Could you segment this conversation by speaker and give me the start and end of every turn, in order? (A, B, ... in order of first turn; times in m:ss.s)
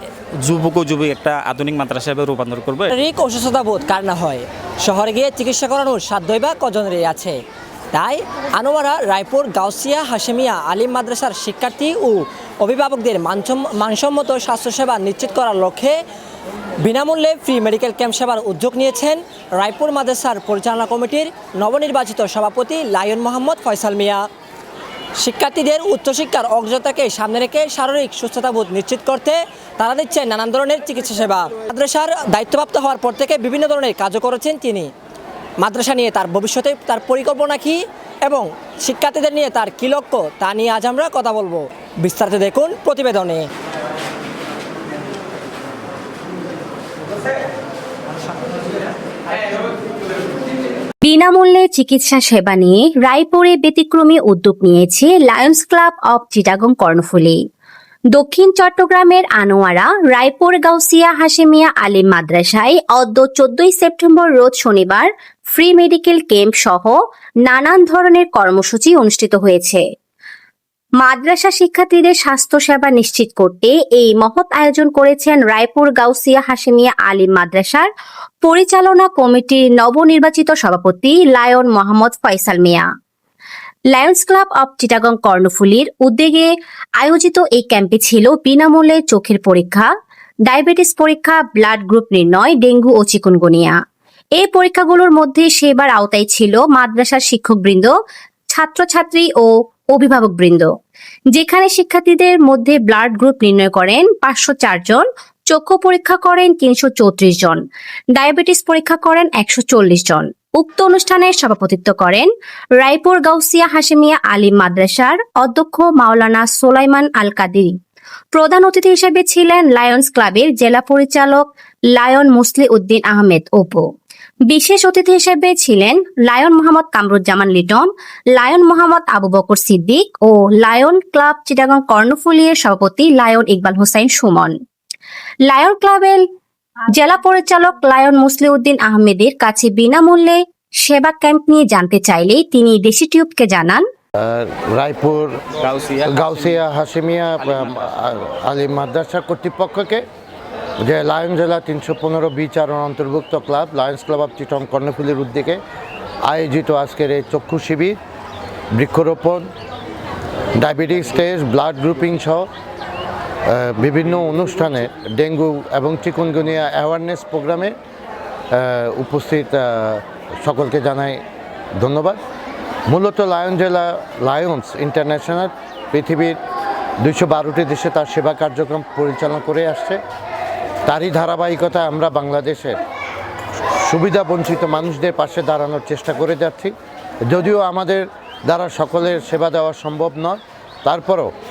0:00.4-0:02.9 A
0:02.9-0:07.4 B
0:07.9-0:16.0 B
0:16.8-0:24.2 B
0:25.2-0:34.9 B
0:35.6-0:43.4 B
0:51.0-0:57.4 C
0:58.1-1:09.8 C
1:11.0-1:17.9 C
1:18.4-1:22.8 C
1:23.9-1:29.9 C
1:30.5-1:33.8 C
1:34.4-1:37.9 C
1:38.5-1:40.7 C
1:41.3-1:47.6 C
1:48.1-1:52.3 C
1:52.8-1:57.7 C
1:58.3-2:03.8 C
2:04.5-2:14.5 C
2:15.5-2:16.2 C
2:16.9-2:23.8 C
2:24.2-2:25.4 D
2:25.6-2:26.6 A
2:26.0-2:30.0 D
2:27.4-2:27.9 A
2:30.8-2:35.6 D
2:36.3-2:38.0 D
2:38.7-2:39.5 D
2:40.6-2:42.5 D
2:43.5-2:47.7 D
2:48.5-2:51.2 D
2:51.8-2:52.2 D
2:52.9-2:56.4 D
2:57.0-3:00.0 D
3:00.9-3:02.8 D
3:03.8-3:06.7 D
3:07.3-3:11.3 D